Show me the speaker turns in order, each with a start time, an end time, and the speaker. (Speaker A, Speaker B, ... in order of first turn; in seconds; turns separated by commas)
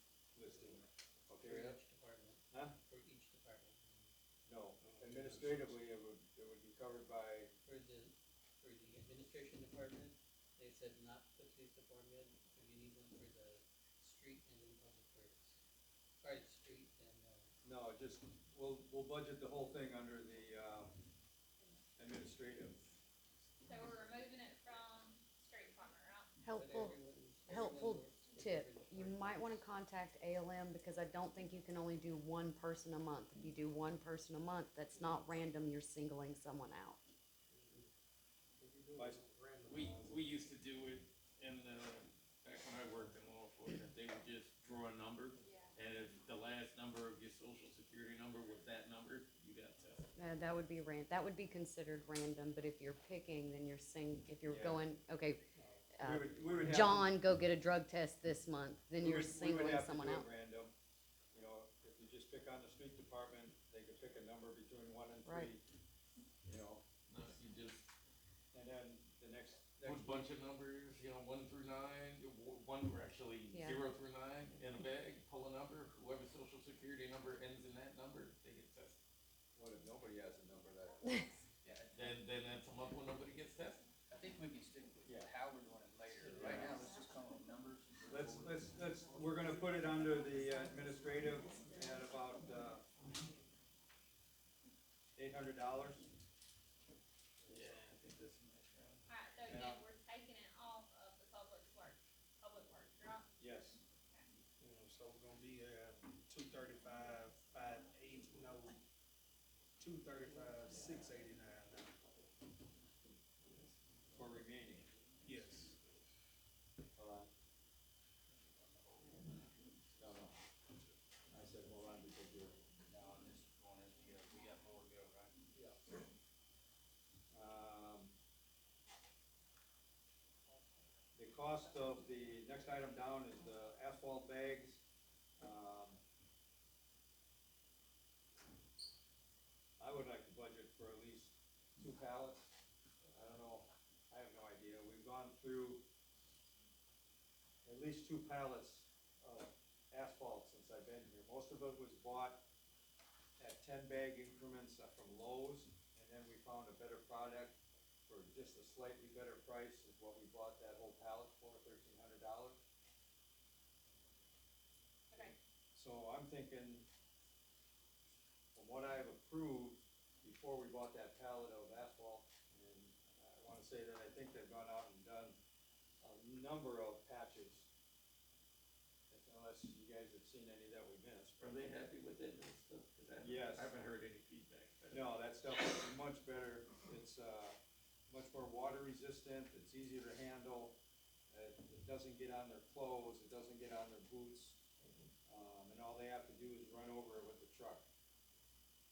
Speaker A: 0.3-1.8, Speaker B: 1.4-4.1, Speaker A: 4.5-7.5, Speaker C: 4.8-5.7, Speaker B: 7.6-15.6, Speaker B: 16.2-17.5, Speaker A: 17.6-21.0, Speaker A: 22.0-22.9, Speaker D: 23.6-26.3, Speaker E: 26.4-37.0, Speaker B: 26.5-29.6, Speaker C: 37.5-37.9, Speaker C: 38.6-40.2, Speaker A: 39.0-39.2, Speaker F: 39.6-50.0, Speaker D: 45.4-45.7, Speaker E: 50.2-55.4, Speaker A: 54.5-54.8, Speaker E: 55.9-60.3, Speaker A: 56.0-57.1, Speaker A: 59.0-60.7, Speaker A: 61.3-65.6, Speaker E: 65.2-65.5, Speaker A: 66.4-66.8, Speaker F: 67.1-67.9, Speaker A: 68.5-70.3, Speaker F: 69.8-79.0, Speaker E: 73.5-73.9, Speaker A: 79.5-81.1, Speaker E: 81.0-81.4, Speaker G: 81.6-82.2, Speaker F: 81.9-83.8, Speaker G: 84.1-89.0, Speaker A: 85.0-85.3, Speaker A: 86.2-86.8, Speaker A: 88.1-92.8, Speaker A: 95.2-96.1, Speaker F: 97.5-99.1, Speaker C: 97.5-97.9, Speaker D: 99.1-103.3, Speaker A: 99.5-99.8, Speaker A: 103.4-103.8, Speaker D: 104.0-104.3, Speaker C: 104.6-108.8, Speaker C: 109.8-111.9, Speaker A: 114.1-114.9, Speaker C: 115.2-115.8, Speaker A: 117.0-117.3, Speaker A: 120.0-120.3, Speaker A: 121.3-122.5, Speaker G: 122.9-125.4, Speaker A: 127.3-128.1, Speaker A: 131.2-134.8, Speaker A: 135.4-136.0, Speaker A: 139.8-142.5, Speaker A: 143.1-145.8, Speaker A: 147.6-152.4, Speaker A: 153.4-162.6, Speaker A: 165.1-166.9, Speaker A: 168.5-175.3, Speaker A: 176.0-177.7, Speaker A: 179.1-181.3, Speaker F: 181.4-185.1, Speaker A: 183.2-183.7, Speaker A: 184.9-187.6, Speaker A: 188.1-190.8, Speaker A: 191.3-194.6, Speaker F: 194.8-195.1, Speaker A: 195.3-197.8